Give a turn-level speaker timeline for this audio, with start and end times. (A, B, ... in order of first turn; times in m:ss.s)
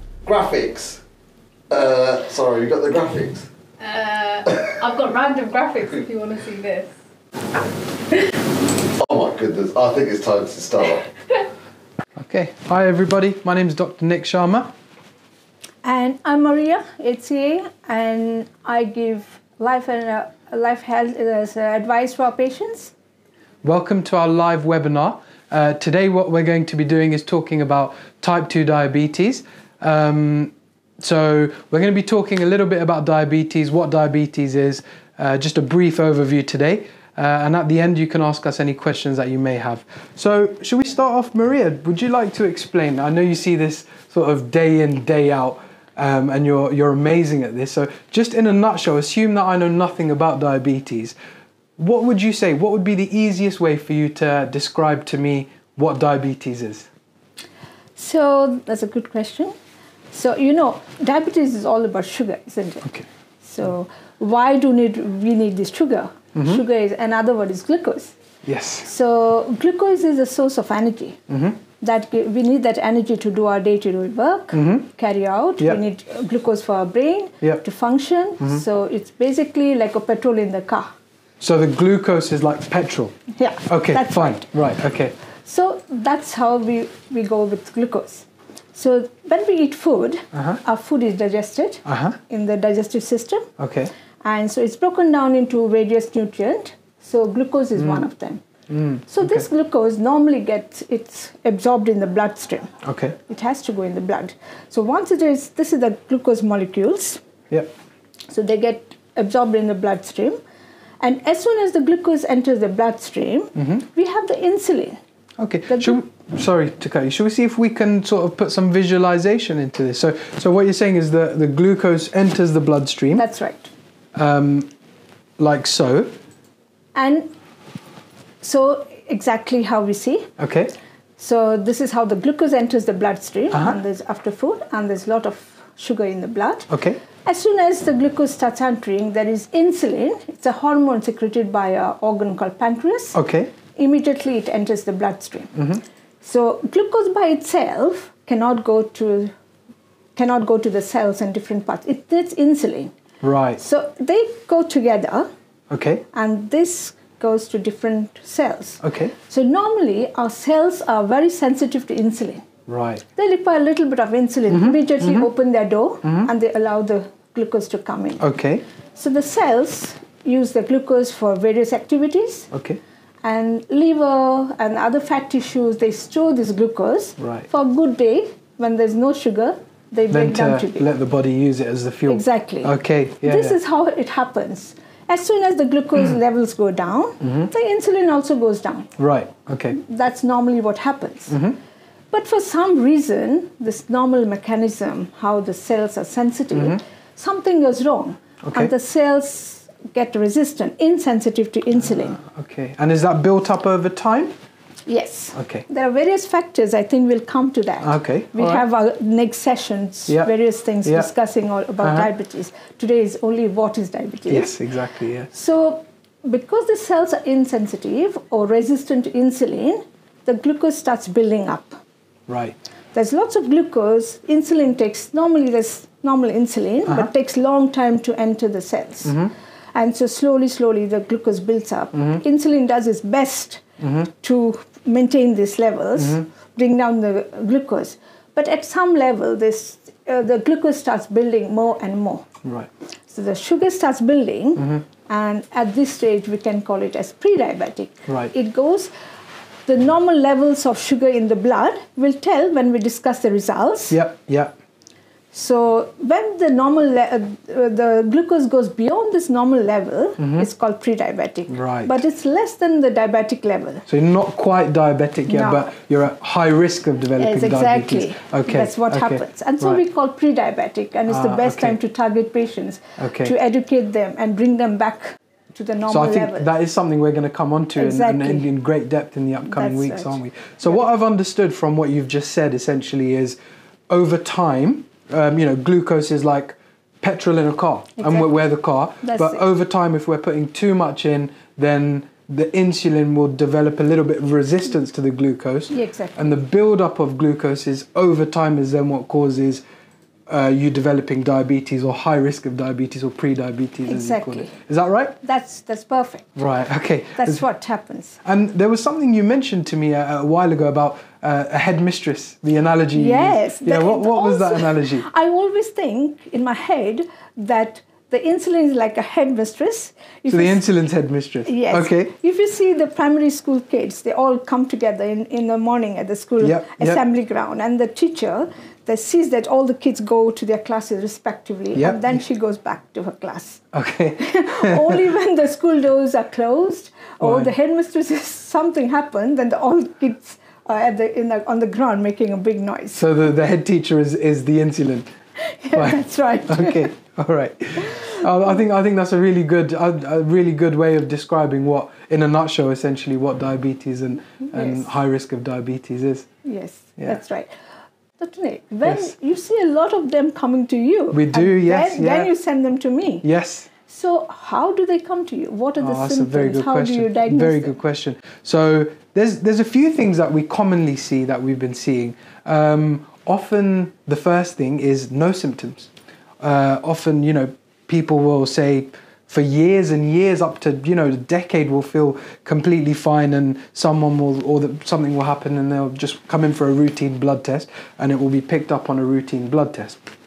0:00.2-0:01.0 A
0:01.7-0:03.5 A
0:03.8-0:06.9 B
0:09.0-0:11.1 A
0:12.2-0:14.7 C
0:15.8-0:22.9 D
0:23.6-0:51.2 C
0:51.8-0:56.9 C
0:58.0-0:59.5 D
1:00.1-1:08.1 D
1:06.4-1:06.6 C
1:08.4-1:08.9 C
1:08.8-1:11.2 D
1:11.3-1:11.6 C
1:11.8-1:21.0 D
1:14.5-1:14.9 C
1:21.4-1:25.1 C
1:23.3-1:24.5 D
1:25.4-1:33.5 D
1:30.3-1:30.6 C
1:31.9-1:32.2 C
1:33.6-1:33.9 C
1:34.2-1:38.4 D
1:37.8-1:38.1 C
1:38.7-1:39.4 C
1:39.1-1:47.2 D
1:42.8-1:43.2 C
1:48.3-1:50.4 D
1:51.0-1:55.0 D
1:53.6-1:53.8 C
1:55.4-2:03.2 C
1:55.7-1:56.0 D
2:03.2-2:03.7 D
2:04.2-2:04.7 C
2:05.4-2:06.1 C
2:07.0-2:07.3 D
2:08.4-2:10.3 D
2:10.4-2:10.7 C
2:11.2-2:16.7 D
2:13.5-2:13.8 C
2:16.7-2:17.0 C
2:17.2-2:23.2 D
2:23.1-2:23.5 C
2:23.8-2:25.5 D
2:25.6-2:25.8 C
2:26.2-2:29.3 D
2:30.2-2:32.9 D
2:33.2-2:33.6 C
2:33.6-2:35.3 D
2:35.7-2:36.0 C
2:36.1-2:42.5 D
2:38.8-2:39.1 C
2:42.7-2:43.0 C
2:43.1-2:48.2 D
2:44.5-2:45.3 C
2:46.0-2:46.3 C
2:48.2-2:48.6 C
2:49.0-2:52.5 D
2:52.5-2:52.8 C
2:53.2-3:00.9 D
2:57.2-2:57.5 C
3:00.1-3:03.6 C
3:02.1-3:08.9 D
3:07.2-3:07.5 C
3:09.0-3:09.8 C
3:09.7-3:11.4 D
3:11.3-3:11.6 C
3:12.1-3:22.2 D
3:18.4-3:18.7 C
3:21.9-3:24.3 C
3:24.9-3:34.6 D
3:25.4-3:25.6 C
3:27.8-3:28.6 C
3:30.8-3:31.1 C
3:31.8-3:32.1 C
3:34.3-3:35.3 C
3:35.3-3:41.8 D
3:42.3-3:42.6 C
3:42.9-4:02.3 D
3:49.1-3:49.3 C
3:52.0-3:52.2 C
3:53.8-3:54.1 C
3:56.0-3:56.2 C
4:03.1-4:08.9 D
4:08.1-4:08.3 C
4:09.7-4:14.0 D
4:13.9-4:14.5 C
4:15.3-4:23.8 D
4:20.2-4:20.5 C
4:21.5-4:22.0 C
4:23.9-4:29.8 C
4:25.3-4:25.7 D
4:27.2-4:36.5 D
4:31.1-4:31.8 C
4:33.0-4:33.3 C
4:35.9-4:43.4 C
4:37.8-4:38.5 D
4:39.5-4:40.2 D
4:43.9-4:59.6 C
4:48.0-4:48.3 D
4:49.0-4:49.4 D
4:55.7-4:56.3 D
5:00.3-5:05.2 C
5:03.9-5:04.5 D
5:05.2-5:06.4 D
5:06.4-5:07.4 C
5:07.2-5:08.2 D
5:08.2-5:15.0 C
5:12.9-5:20.6 D
5:20.3-5:22.1 C
5:21.5-5:33.7 D
5:26.4-5:27.0 C
5:31.8-5:32.2 C
5:33.7-5:35.0 C
5:34.2-5:43.0 D
5:37.2-5:37.5 C
5:42.9-5:45.1 C
5:45.4-5:46.9 D
5:45.7-5:56.3 C
5:54.5-5:54.8 D
5:56.4-5:57.5 D
5:58.2-6:03.3 D
5:58.8-5:59.1 C
6:01.1-6:02.3 C
6:03.2-6:03.7 C
6:03.9-6:07.8 D
6:05.8-6:15.9 C
6:16.4-6:30.0 C